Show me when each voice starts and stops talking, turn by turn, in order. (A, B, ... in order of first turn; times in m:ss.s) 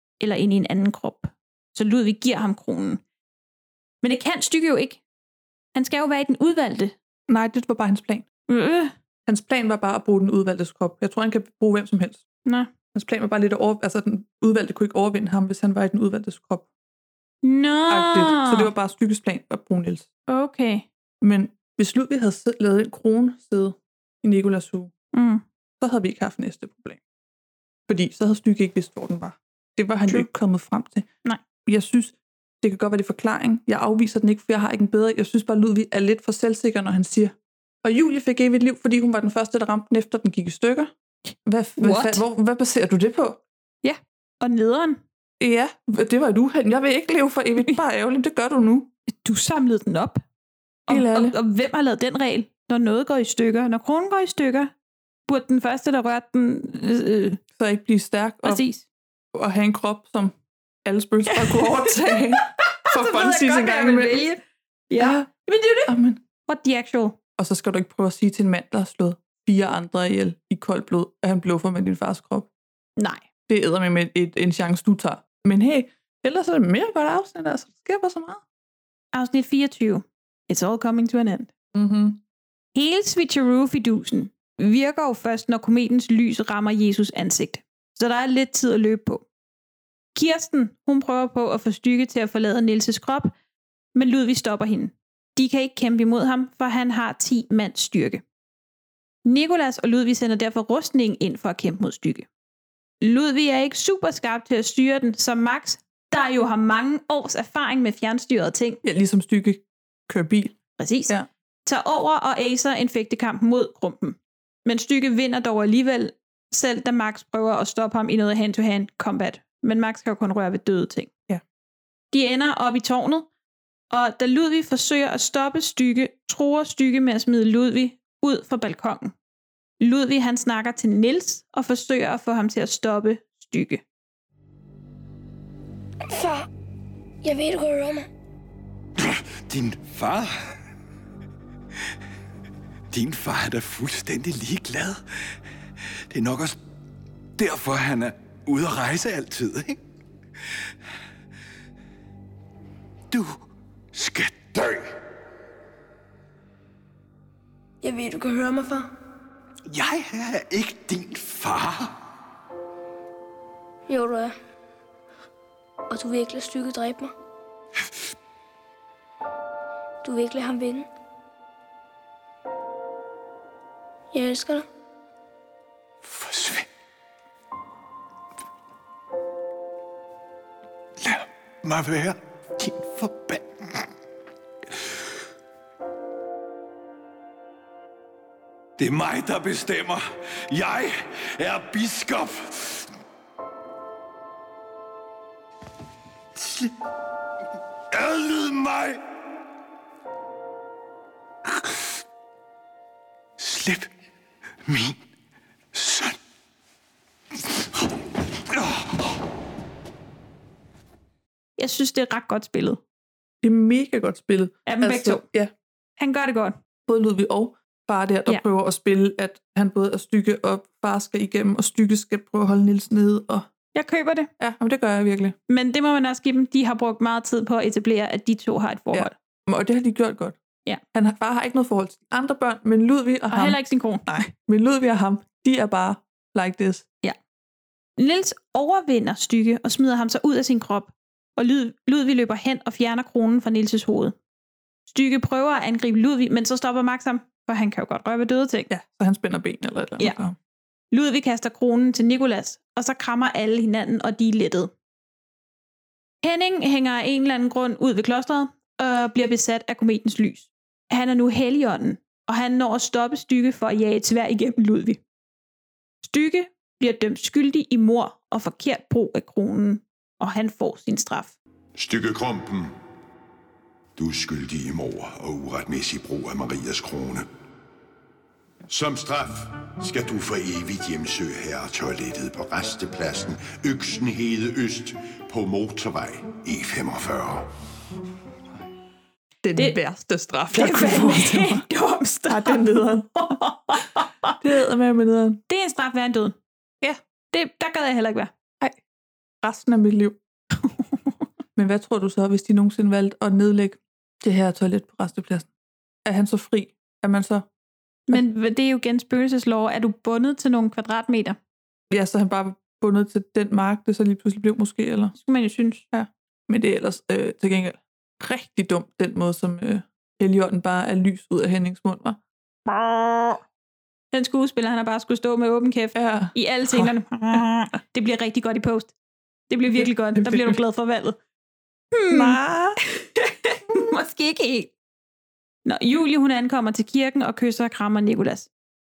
0:00.2-0:03.0 A
0:04.0-0:05.0 A
0:05.7-0:06.9 A
0:07.3-0:08.2 B
0:08.5-0:08.9 A
0:09.3-0:12.2 B
0:12.9-0:16.7 B
0:17.4-0:18.7 A
0:17.9-0:20.1 B
0:20.3-0:20.8 A
0:21.2-0:24.9 B
0:25.1-0:25.4 A
0:25.8-0:27.0 B
0:27.9-0:31.1 B
0:31.6-0:40.9 B
0:41.4-0:43.4 B
0:41.8-0:42.2 A
0:43.8-0:45.0 A
0:45.4-0:48.9 B
0:49.1-0:50.2 A
0:50.9-0:54.7 A
0:50.9-0:51.3 B
0:55.3-0:57.4 A
0:57.6-0:58.6 B
0:58.4-0:58.8 A
0:59.3-1:00.3 B
1:00.8-1:04.3 B
1:01.3-1:05.9 A
1:05.0-1:05.3 B
1:05.8-1:06.2 B
1:06.4-1:07.2 A
1:07.4-1:12.5 B
1:13.0-1:13.2 A
1:13.5-1:18.4 B
1:19.1-1:21.5 A
1:21.7-1:22.2 B
1:22.7-1:29.2 A
1:30.1-1:33.3 A
1:33.9-1:38.2 A
1:39.2-1:42.3 A
1:43.0-1:48.8 A
1:48.8-1:50.6 B
1:50.8-1:51.1 A
1:51.6-2:01.1 A
2:02.1-2:03.3 A
2:03.9-2:09.1 A
2:09.8-2:13.8 A
2:16.1-2:16.4 C
2:17.2-2:18.1 C
2:19.5-2:20.3 D
2:22.9-2:25.0 D
2:26.1-2:26.5 D
2:27.4-2:29.8 D
2:34.0-2:34.8 D
2:37.8-2:38.9 C
2:39.7-2:41.9 D
2:43.9-2:44.3 C
2:45.9-2:47.1 C
2:50.0-2:50.9 C
2:54.1-2:54.6 C
3:01.6-3:03.4 D
3:08.8-3:10.0 D
3:10.5-3:10.9 D
3:11.4-3:12.3 D
3:18.3-3:18.8 D
3:23.5-3:23.8 D
3:31.6-3:32.8 A
3:33.4-3:35.5 B
3:34.6-3:35.2 A
3:36.0-3:36.5 A
3:36.9-3:43.5 B
3:43.7-3:44.3 A
3:44.4-3:45.4 B
3:45.5-3:49.1 A
3:48.9-3:50.4 B
3:50.9-3:56.9 B
3:53.3-3:54.3 A
3:58.0-4:04.1 A
4:04.9-4:08.7 A
4:08.7-4:10.4 B
4:10.9-4:14.7 A
4:16.2-4:25.0 A
4:26.0-4:31.4 A
4:31.8-4:32.7 E
4:34.0-4:37.3 E
4:38.7-4:47.5 E
4:49.4-4:51.6 B
4:50.5-4:52.6 A
4:52.3-4:53.4 B
4:53.2-4:54.4 A
4:54.4-4:55.4 B
4:55.5-4:56.4 A
4:57.3-4:58.3 A
4:59.4-5:00.2 B
5:00.6-5:01.1 A
5:01.6-5:05.5 B
5:06.0-5:07.4 B
5:08.1-5:11.4 A
5:11.9-5:15.1 B
5:15.1-5:15.8 A
5:15.9-5:22.2 B
5:22.7-5:23.4 A
5:24.1-5:28.9 A
5:25.9-5:27.4 B
5:29.5-5:31.2 A
5:29.7-5:30.6 B
5:31.9-5:34.7 A
5:32.1-5:32.8 B
5:35.6-5:38.5 A